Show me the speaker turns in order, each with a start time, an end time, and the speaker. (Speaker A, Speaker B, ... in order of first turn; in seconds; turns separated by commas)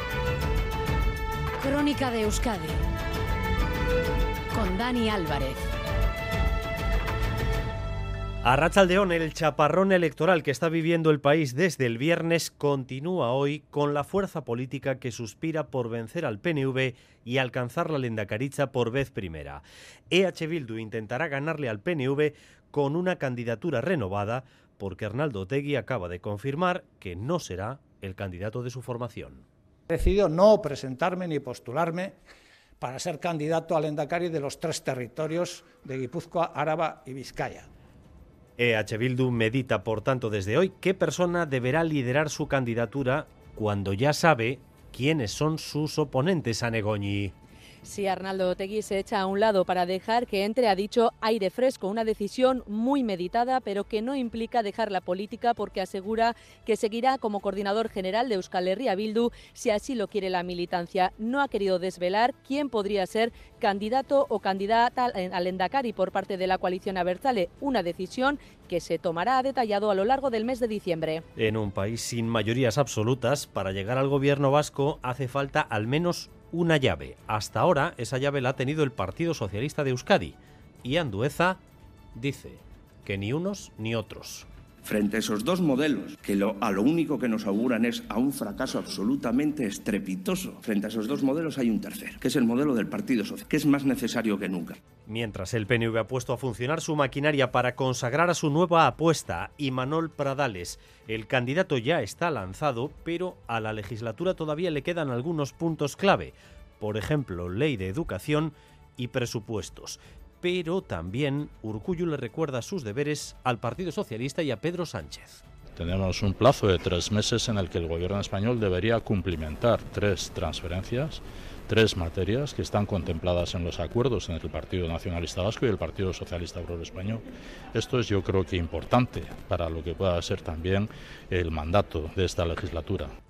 Speaker A: 1.6-2.7, Speaker A: 4.5-5.5, Speaker B: 8.4-29.4, Speaker C: 29.9-32.1, Speaker C: 32.8-37.7, Speaker B: 38.6-47.3, Speaker D: 47.8-71.2, Speaker B: 71.4-81.6, Speaker B: 82.2-84.5, Speaker E: 84.8-94.8, Speaker B: 95.1-115.4, Speaker F: 115.8-127.2, Speaker F: 127.7-133.1